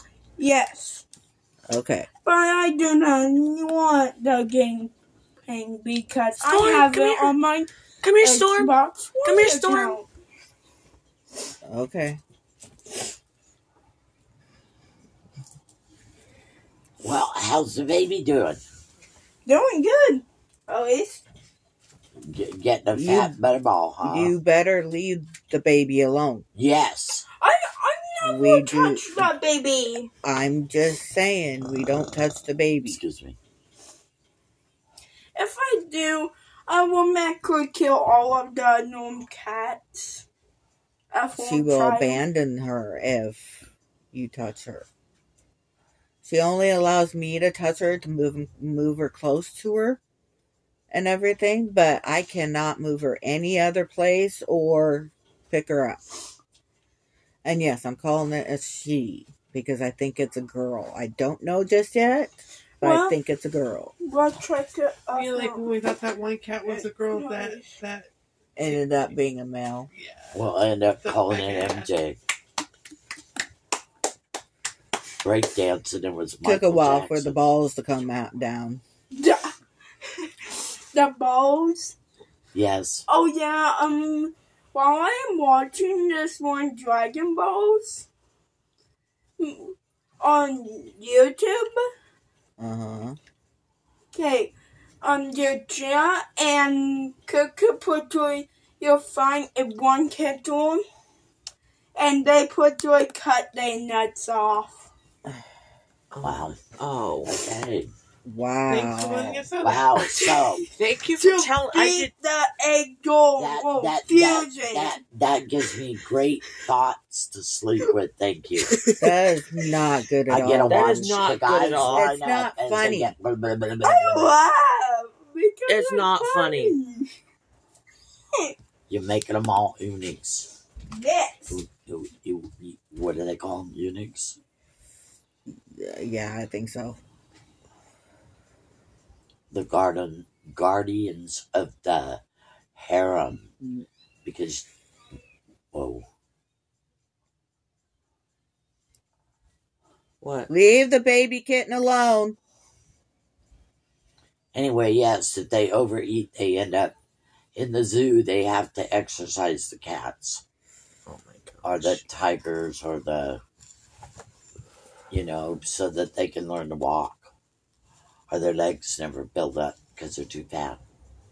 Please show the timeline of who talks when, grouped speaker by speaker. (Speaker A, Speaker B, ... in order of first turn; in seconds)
Speaker A: 0.4-1.0, 2.2-4.9, 5.5-10.1, 19.4-21.2, 27.4-30.1, 35.4-40.2, 41.1-42.2, 62.8-63.1, 64.0-65.9, 66.6-67.7, 79.1-79.5, 80.2-82.0, 83.1-88.0, 89.4-91.8, 94.1-100.8, 102.0-104.9, 111.2-115.0, 123.8-127.1, 130.9-131.6
Speaker B: 1.7-2.1, 11.7-12.2, 22.9-23.4, 24.0-26.4, 28.2-29.3, 30.2-33.0, 41.4-44.9, 46.2-50.0, 50.9-56.0, 57.4-63.9, 68.5-69.9, 76.4-78.8, 92.6-93.2, 108.2-109.5, 118.9-120.9, 121.8-123.1, 135.7-137.0, 150.5-152.4
Speaker C: 6.4-7.3, 8.0-10.0, 106.1-107.3, 110.0-112.1, 118.7-119.1, 120.7-122.1, 125.7-126.8, 150.2-150.5, 161.1-162.0
Speaker D: 17.0-18.6, 22.2-24.3, 26.5-27.2, 32.9-33.4, 70.3-72.2, 75.2-77.4, 82.5-83.0, 106.2-106.6, 107.2-107.9, 109.6-110.6, 113.4-118.8, 120.3-124.4, 128.9-130.5, 131.5-134.4, 139.5-142.2, 142.8-143.5, 144.2-144.7, 145.7-146.0, 154.5-156.9, 157.5-160.4, 161.6-163.4, 165.1-167.3, 168.3-170.8
Speaker E: 65.1-68.1, 70.0-70.3, 71.0-71.8, 108.7-110.2